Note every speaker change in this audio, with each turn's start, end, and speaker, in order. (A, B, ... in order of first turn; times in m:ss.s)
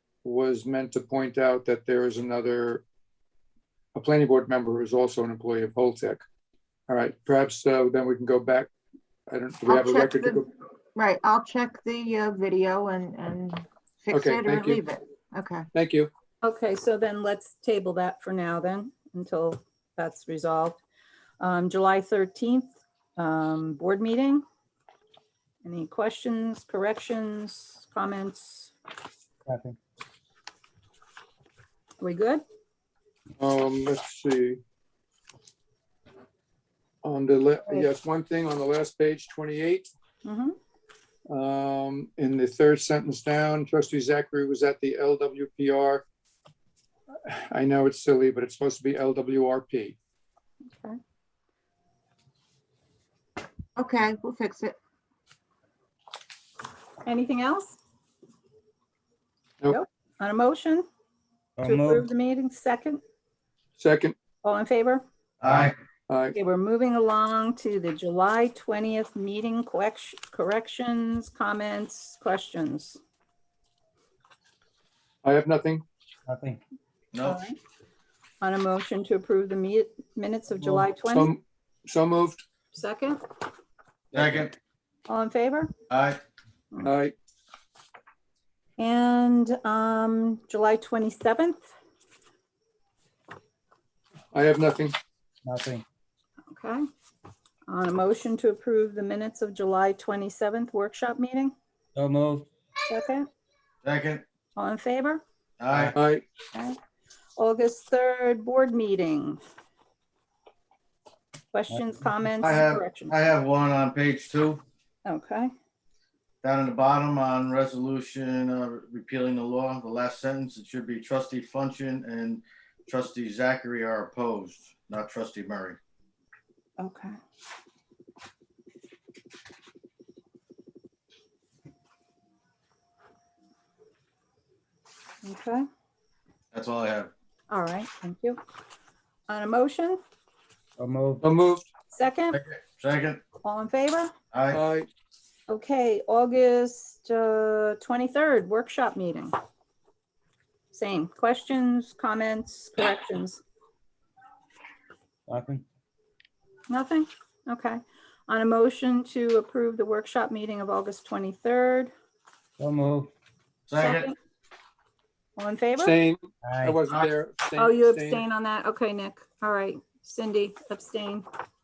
0:00.2-0:02.8 A
0:04.0-0:06.2 A
0:06.9-0:08.7 A
0:09.3-0:10.5 A
0:09.7-0:10.4 B
0:11.0-0:15.7 B
0:14.1-0:14.8 A
0:15.7-0:16.1 A
0:16.4-0:20.8 C
0:21.4-0:24.4 C
0:25.6-0:28.7 C
0:29.5-0:29.8 D
0:32.0-0:32.4 C
0:33.4-0:34.6 A
0:37.0-0:39.9 A
0:40.2-0:40.6 C
0:41.3-0:46.0 A
0:47.3-0:50.0 A
0:50.7-0:51.0 C
0:53.8-0:54.8 B
0:57.0-0:57.8 C
0:59.7-1:00.9 C
1:01.6-1:02.1 D
1:01.6-1:03.0 C
1:03.8-1:04.2 A
1:04.4-1:05.0 C
1:05.4-1:05.8 E
1:06.1-1:06.4 A
1:06.4-1:13.0 C
1:15.2-1:15.8 A
1:16.3-1:16.6 D
1:17.1-1:17.4 E
1:17.2-1:17.6 C
1:18.4-1:21.3 C
1:21.1-1:22.4 A
1:22.7-1:23.2 C
1:24.1-1:24.5 E
1:25.1-1:25.7 C
1:25.9-1:26.2 E
1:26.8-1:27.2 A
1:28.8-1:31.7 C
1:34.3-1:35.0 A
1:35.4-1:35.8 D
1:36.5-1:36.8 C
1:37.7-1:41.5 C
1:42.0-1:42.5 D
1:42.8-1:43.3 C
1:43.8-1:44.2 E
1:44.6-1:45.2 C
1:45.6-1:46.0 E
1:45.9-1:46.2 A
1:47.4-1:49.4 C
1:51.5-1:53.2 C
1:51.7-1:52.5 D
1:52.4-1:54.6 E
1:55.1-1:55.5 C
1:56.4-2:05.8 E
2:06.8-2:07.2 C
2:15.2-2:15.7 C
2:16.5-2:17.1 E
2:17.5-2:18.4 C
2:19.3-2:20.0 C
2:20.8-2:21.2 D
2:21.2-2:21.7 A
2:21.9-2:22.4 C
2:22.3-2:23.2 E
2:23.4-2:24.1 C
2:24.3-2:24.6 E
2:24.5-2:24.9 A
2:25.5-2:29.4 C
2:30.7-2:33.4 C
2:35.3-2:35.6 D
2:36.7-2:41.9 C
2:42.6-2:43.1 D
2:43.7-2:44.1 E
2:43.8-2:44.2 C
2:45.4-2:45.9 C
2:45.8-2:48.2 A
2:46.4-2:46.8 D
2:47.6-2:51.3 C